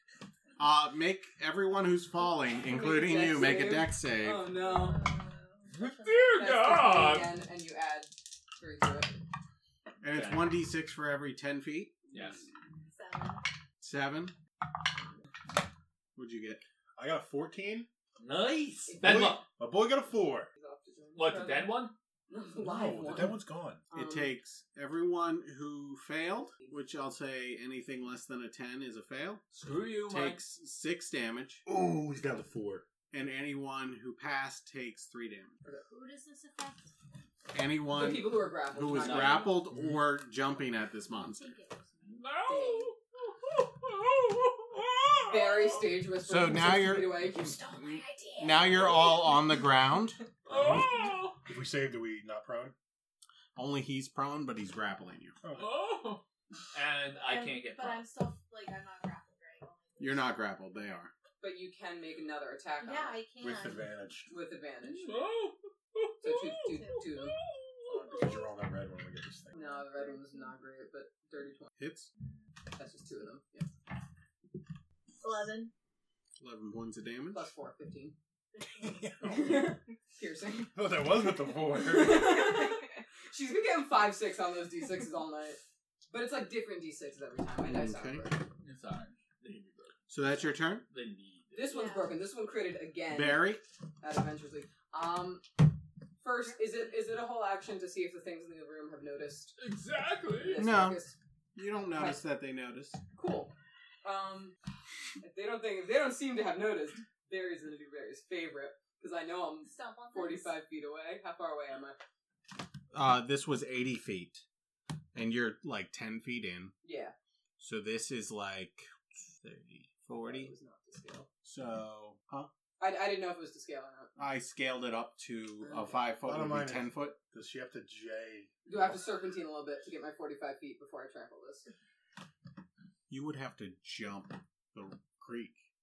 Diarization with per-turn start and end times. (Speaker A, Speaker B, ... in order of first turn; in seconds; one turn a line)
Speaker A: 0.6-4.4
Speaker B: 2.6-5.1
Speaker C: 4.5-6.5
Speaker D: 5.7-7.3
Speaker B: 6.4-9.2
Speaker A: 10.0-12.0
Speaker D: 10.1-10.5
Speaker D: 12.1-12.4
Speaker C: 12.9-13.4
Speaker A: 13.8-14.3
Speaker A: 16.1-16.6
Speaker E: 16.9-17.9
Speaker D: 18.2-19.4
Speaker B: 18.9-19.4
Speaker E: 19.0-20.5
Speaker B: 20.5-21.8
Speaker D: 21.1-21.9
Speaker B: 22.3-24.3
Speaker E: 22.6-23.8
Speaker A: 23.9-29.4
Speaker D: 29.5-30.4
Speaker A: 30.0-31.6
Speaker E: 31.6-32.9
Speaker A: 33.1-35.6
Speaker C: 35.8-36.9
Speaker A: 37.5-41.5
Speaker B: 37.9-39.6
Speaker D: 39.0-39.5
Speaker E: 39.7-40.0
Speaker C: 40.9-42.2
Speaker D: 42.0-46.0
Speaker B: 42.5-42.9
Speaker B: 45.3-47.6
Speaker A: 46.2-47.3
Speaker C: 46.9-49.4
Speaker A: 48.4-50.2
Speaker D: 48.8-49.2
Speaker E: 50.4-52.7
Speaker D: 50.5-51.4
Speaker A: 53.5-55.4
Speaker E: 55.4-55.7
Speaker D: 55.5-58.1
Speaker C: 57.2-61.0
Speaker A: 60.0-61.1
Speaker B: 61.4-63.2
Speaker C: 62.8-63.9
Speaker E: 63.4-64.3
Speaker B: 64.3-65.1
Speaker D: 65.0-68.2
Speaker B: 66.2-67.3
Speaker C: 66.7-67.0
Speaker E: 67.9-69.6
Speaker C: 68.1-68.5
Speaker C: 69.5-70.6
Speaker B: 69.5-71.7
Speaker A: 71.8-72.1
Speaker B: 72.7-73.7
Speaker C: 75.2-75.7
Speaker A: 76.4-77.5
Speaker B: 77.3-78.1
Speaker C: 78.6-78.9
Speaker E: 78.6-79.7
Speaker B: 79.2-80.8
Speaker E: 80.7-82.4
Speaker B: 81.6-88.4
Speaker A: 87.6-88.3
Speaker D: 88.6-90.3
Speaker A: 90.1-90.8
Speaker D: 90.9-91.7
Speaker B: 91.5-95.4
Speaker C: 91.7-92.2
Speaker A: 93.1-93.6
Speaker B: 96.2-99.6
Speaker C: 96.4-96.9
Speaker D: 99.6-100.6
Speaker B: 100.3-101.2
Speaker A: 100.6-101.0
Speaker A: 101.5-103.0
Speaker B: 101.9-102.2
Speaker B: 103.2-103.5
Speaker B: 104.0-104.5
Speaker B: 105.2-112.0
Speaker C: 109.6-110.6
Speaker A: 112.9-114.4
Speaker A: 115.1-116.7
Speaker B: 116.8-117.1
Speaker A: 117.6-118.8
Speaker A: 119.4-120.5
Speaker B: 120.1-121.3
Speaker A: 121.4-122.5
Speaker B: 122.8-124.1
Speaker A: 124.2-127.2
Speaker B: 125.6-125.9
Speaker E: 126.2-128.9
Speaker B: 128.7-131.7
Speaker A: 133.1-135.6